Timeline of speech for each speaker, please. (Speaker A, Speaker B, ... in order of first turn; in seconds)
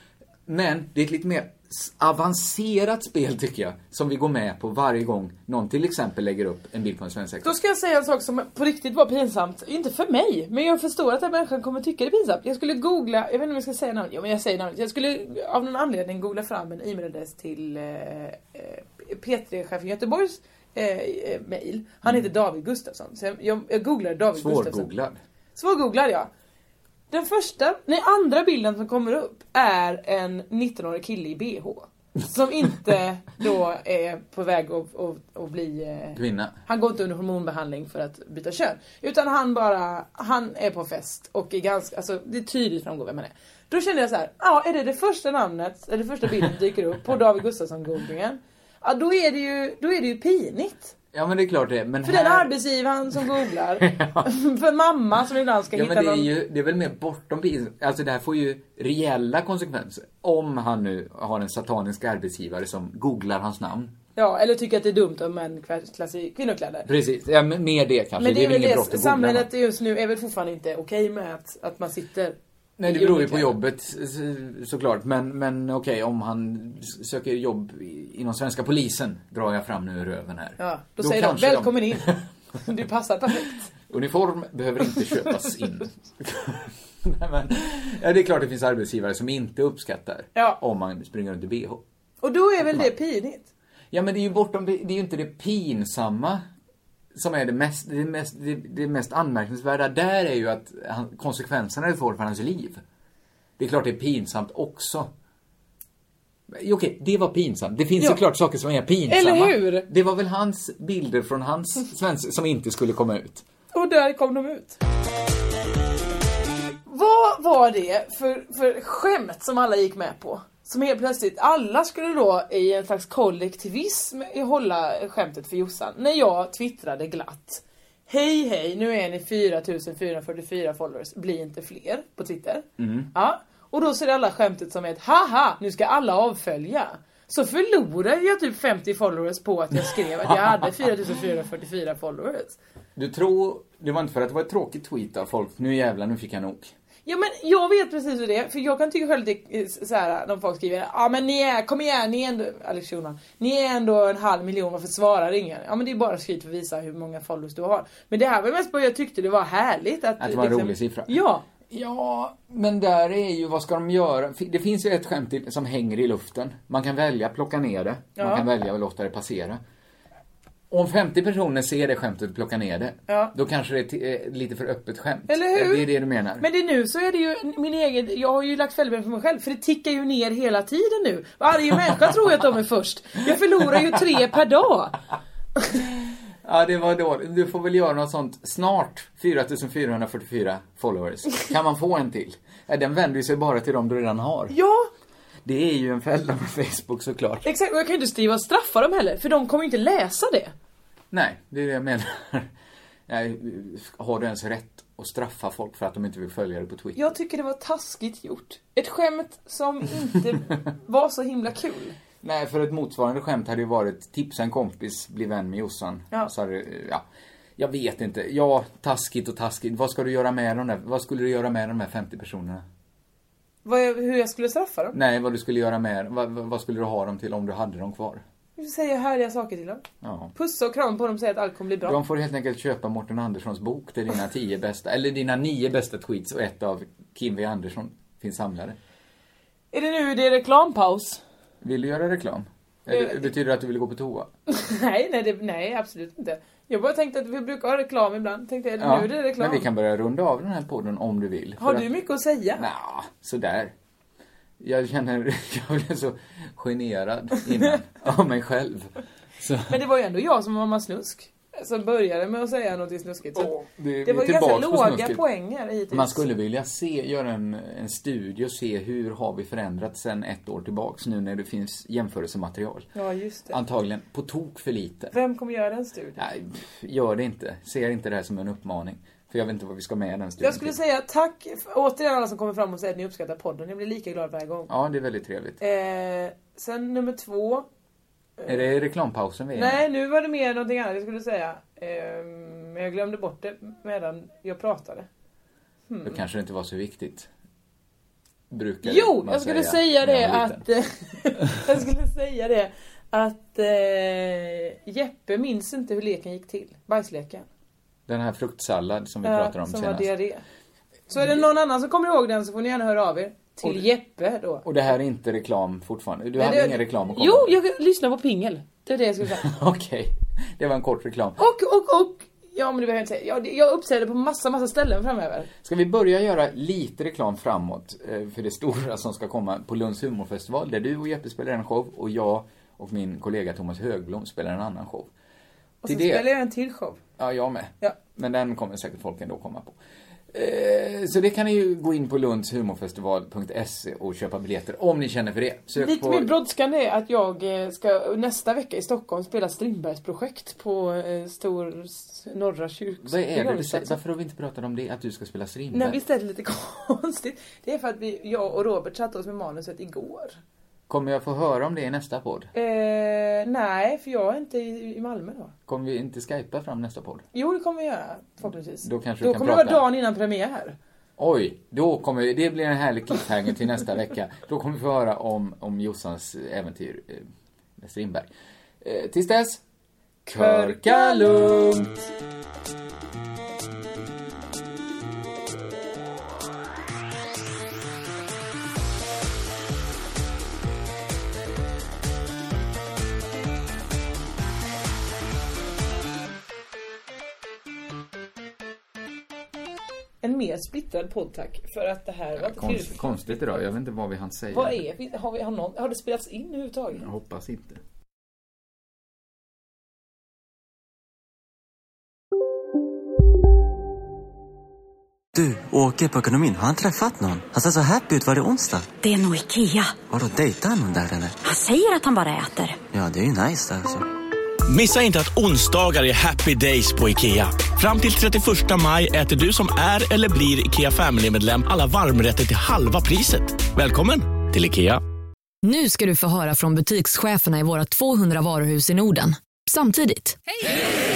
Speaker A: 0.5-7.5, 24.4-25.2, 36.1-36.5, 51.1-52.5, 53.8-54.2, 55.7-63.9, 66.8-69.5, 72.8-82.2, 83.9-91.8, 93.9-96.4, 97.1-102.8, 103.6-105.1, 106.5-113.4, 132.8-133.1, 142.9-146.7, 160.2-161.2, 161.7-169.6, 170.7-176.4, 186.4-194.5, 195.4-197.5, 201.1-202.5, 203.1-207.1, 212.2-217.0, 217.6-222.6, 224.9-228.2, 230.0-230.3, 231.8-238.8, 241.6-244.3, 248.8-251.9, 252.6-253.7, 254.6-259.7, 263.4-265.2, 265.9-272.9, 273.5-275.1, 276.2-280.8, 284.7-285.6, 288.4-289.8, 296.0-297.3, 298.5-300.6, 308.1-310.1, 314.6-317.5, 319.4-321.4, 325.6-335.1, 335.8-336.2, 337.2-339.8, 340.3-346.3, 353.0-356.0, 360.9-362.5, 365.7-367.3, 368.8-369.8, 371.2-378.3, 378.8-379.6, 380.3-382.0, 402.4-404.8, 406.9-407.8
Speaker B: 7.4-24.9, 25.6-26.3, 27.1-50.9, 52.0-56.3, 64.2-66.9, 68.2-73.5, 80.6-83.7, 92.2-93.5, 109.1-109.9, 113.7-114.8, 116.8-142.6, 147.1-161.4, 168.2-168.5, 173.1-173.3, 175.3-175.9, 176.4-185.0, 194.5-194.9, 197.4-200.5, 206.9-212.0, 223.6-224.9, 228.6-229.8, 230.3-232.0, 239.7-241.2, 242.9-243.2, 244.5-249.6, 251.6-252.7, 259.7-263.5, 264.0-266.2, 272.9-273.6, 275.1-276.2, 280.4-284.7, 285.6-287.6, 289.5-295.1, 295.9-296.2, 298.8-307.4, 309.2-310.4, 311.1-314.6, 316.4-319.5, 321.4-325.5, 335.8-337.0, 345.8-353.9, 355.7-360.4, 362.5-365.5, 367.3-370.8, 380.3-381.8, 400.2-403.6, 404.5-407.1
Speaker C: 415.3-418.9, 420.1-421.4, 422.9-424.1
Speaker D: 419.0-420.0, 421.4-422.8
Speaker E: 424.7-435.0
Speaker F: 435.6-440.4